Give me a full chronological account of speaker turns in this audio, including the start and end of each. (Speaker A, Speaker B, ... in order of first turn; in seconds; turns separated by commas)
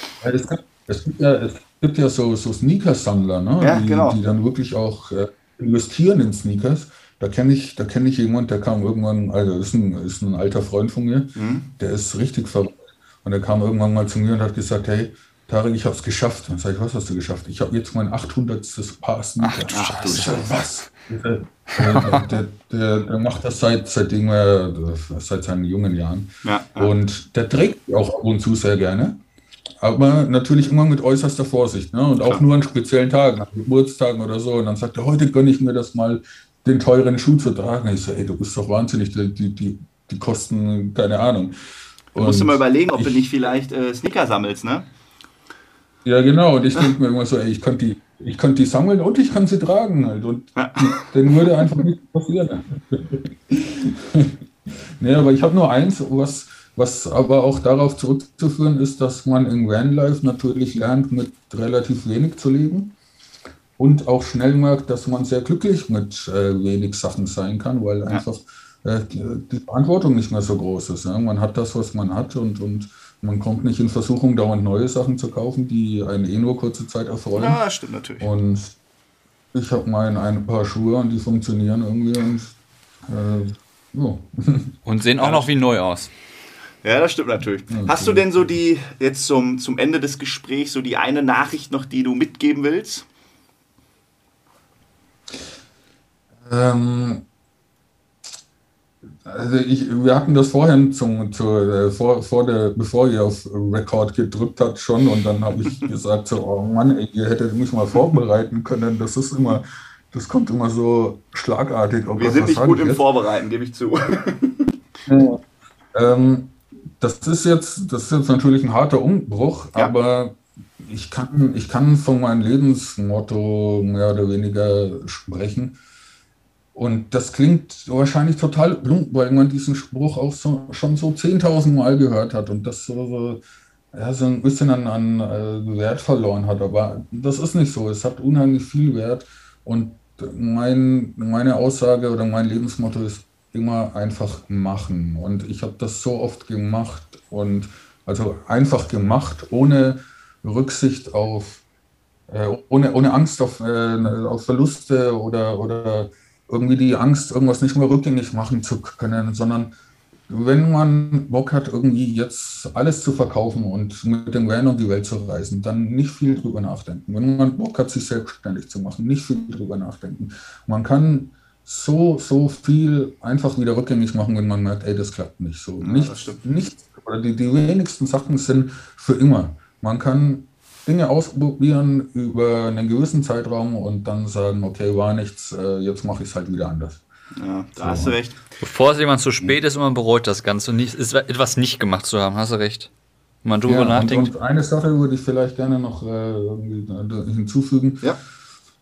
Speaker A: 0.2-29.2, Speaker B: 3.6-4.2, Speaker B: 11.3-11.7, Speaker C: 19.4-20.5, Speaker B: 19.7-20.5, Speaker C: 21.8-22.2, Speaker B: 26.4-26.9, Speaker A: 29.8-41.5, Speaker A: 42.1-43.2, Speaker B: 42.1-44.9, Speaker A: 46.0-54.4, Speaker B: 50.5-51.8, Speaker A: 55.0-62.9, Speaker A: 63.8-77.6, Speaker B: 77.3-78.3, Speaker A: 78.2-78.8, Speaker A: 79.5-84.8, Speaker C: 84.8-86.1, Speaker B: 85.2-85.5, Speaker B: 86.8-93.0, Speaker A: 87.7-88.3, Speaker A: 96.5-97.2, Speaker A: 99.2-113.1, Speaker B: 112.2-114.7, Speaker A: 115.1-115.4, Speaker A: 115.9-125.8, Speaker A: 126.7-133.4, Speaker A: 133.9-151.6, Speaker A: 152.3-159.7, Speaker A: 160.3-187.0, Speaker B: 175.8-176.4, Speaker B: 187.3-188.4, Speaker A: 187.8-188.2, Speaker C: 188.6-192.9, Speaker C: 193.4-194.3, Speaker A: 193.7-198.0